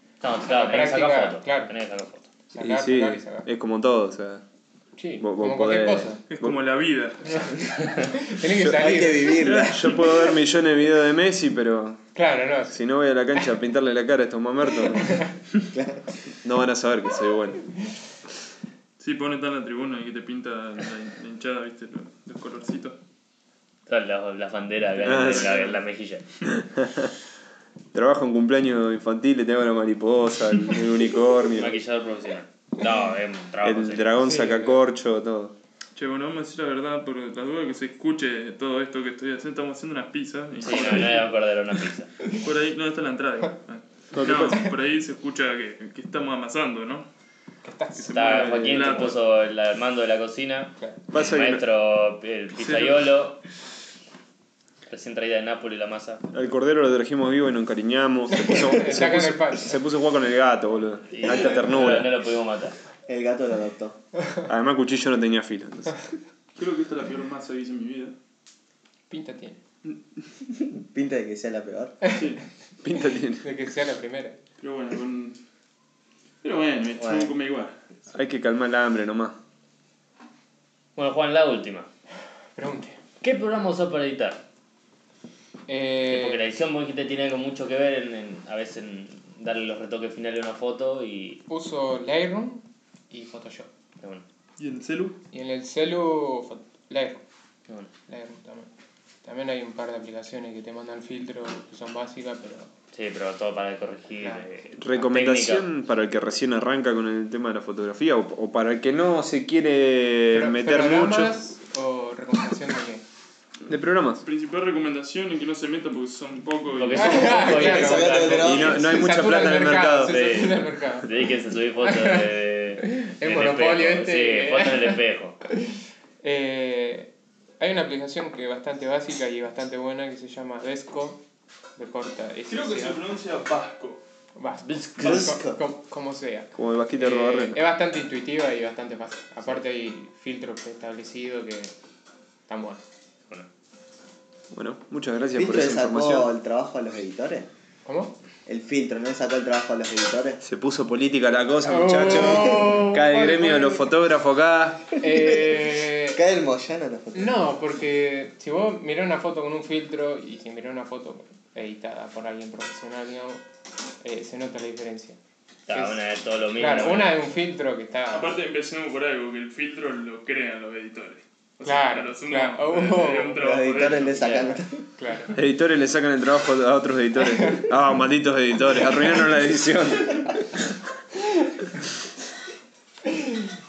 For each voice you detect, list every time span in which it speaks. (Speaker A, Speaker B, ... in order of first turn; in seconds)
Speaker A: 0.2-2.3, 23.9-26.2, 31.6-34.1, 40.6-42.1, 48.1-53.4, 54.9-56.2, 61.1-62.8, 81.0-81.9, 83.2-84.4, 86.1-91.4, 102.9-105.7, 116.8-118.9, 120.0-125.4, 134.6-135.3, 165.7-167.2, 174.2-174.6
Speaker B: 0.4-1.7, 2.5-3.5, 5.0-6.2, 8.0-9.5, 12.2-12.8, 14.9-15.3, 34.2-34.8, 47.6-48.9, 58.3-59.8, 69.1-69.6, 72.1-72.4, 73.4-74.4, 82.6-83.0, 85.7-86.4, 91.5-93.7, 95.3-97.2, 98.1-98.7, 99.2-102.7, 110.3-113.0, 116.9-121.3, 121.8-122.3, 122.8-125.0, 126.2-131.2, 131.8-133.0, 134.4-141.7, 142.5-142.8, 147.8-148.2, 151.7-153.9, 155.0-156.2, 157.1-163.4, 164.0-165.2, 165.7-166.0, 166.6-168.3, 171.6-173.4, 174.4-175.4, 183.1-183.5
Speaker C: 2.6-4.4, 5.2-6.6, 8.5-12.0, 12.7-15.3, 16.4-17.7, 25.0-25.6, 26.5-27.1, 27.9-31.8, 33.6-35.5, 44.1-44.7, 51.1-51.6, 56.3-62.1, 64.5-66.1, 72.8-73.5, 78.1-79.4, 104.8-111.4, 113.7-114.2, 118.4-120.2, 136.6-137.6, 144.5-146.3, 150.4-155.0, 175.3-180.7
Speaker D: 6.3-8.0, 19.0-23.0, 36.0-41.3, 42.3-47.1, 48.0-49.2, 52.6-53.0, 66.6-68.2, 72.1-72.4, 74.6-75.4, 76.4-77.7, 94.6-95.2, 114.2-117.5, 132.5-134.0, 168.1-174.3
Speaker E: 8.7-9.9, 15.7-16.0, 63.1-64.0, 70.7-72.0, 117.5-118.9, 135.0-135.6, 145.3-147.5, 148.5-150.4, 152.4-152.7, 155.0-157.4, 173.4-174.9